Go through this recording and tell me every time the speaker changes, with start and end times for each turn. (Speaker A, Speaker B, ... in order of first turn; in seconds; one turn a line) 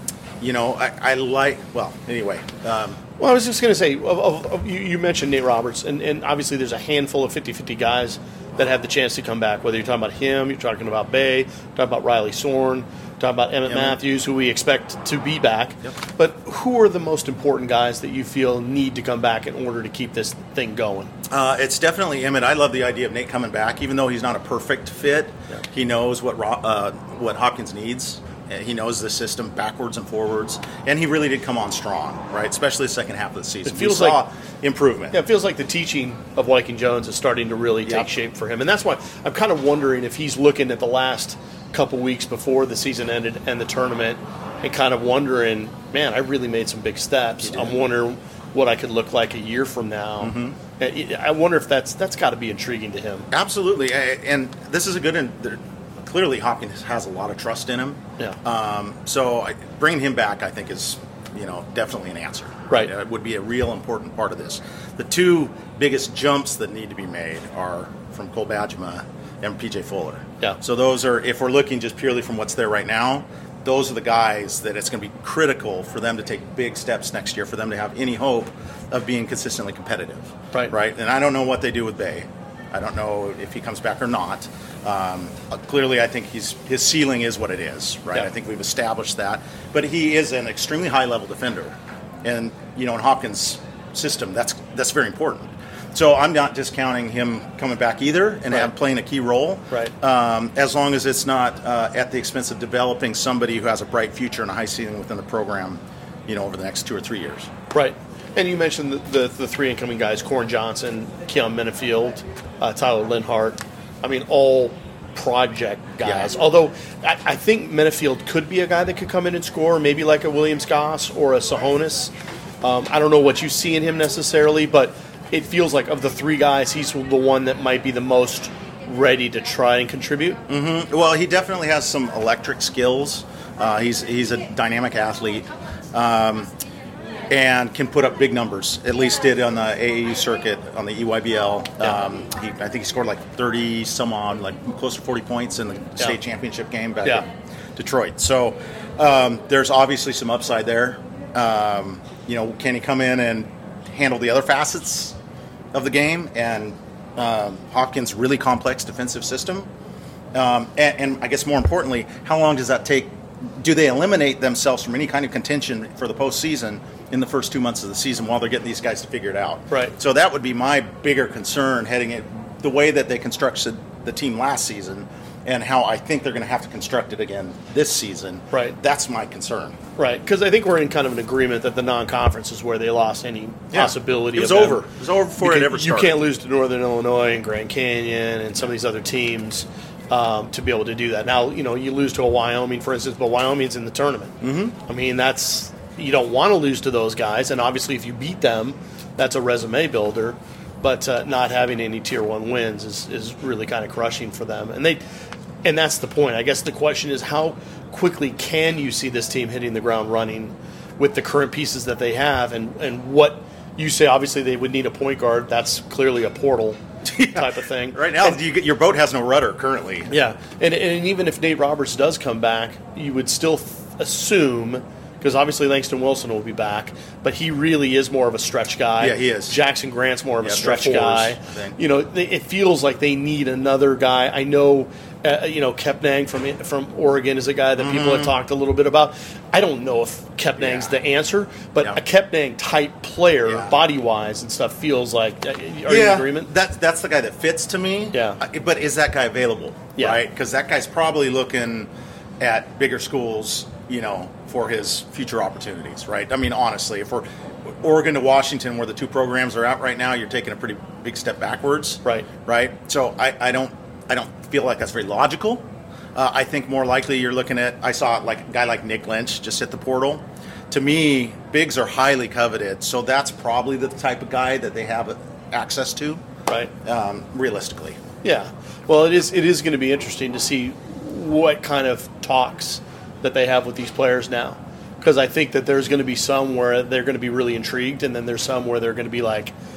Speaker A: 0.4-3.0
Speaker B: 3.2-21.1
Speaker A: 13.7-14.0
Speaker A: 21.3-35.2
Speaker B: 33.6-34.2
Speaker B: 35.1-53.3
Speaker A: 47.4-47.7
Speaker A: 50.2-50.6
Speaker A: 53.3-107.5
Speaker B: 107.7-130.4
Speaker A: 116.0-116.3
Speaker A: 130.5-136.5
Speaker A: 137.3-155.2
Speaker A: 155.7-159.7
Speaker A: 160.3-179.8
Speaker B: 180.0-184.8
Speaker A: 183.7-186.2
Speaker B: 185.4-205.0
Speaker A: 194.4-194.7
Speaker B: 205.6-218.4
Speaker A: 217.0-220.2
Speaker B: 220.1-246.5
Speaker A: 229.0-229.6
Speaker A: 230.4-231.8
Speaker A: 237.8-238.3
Speaker A: 240.6-240.9
Speaker A: 243.4-243.8
Speaker A: 245.8-251.9
Speaker B: 248.1-248.4
Speaker A: 252.4-276.2
Speaker A: 276.8-278.0
Speaker B: 278.2-289.5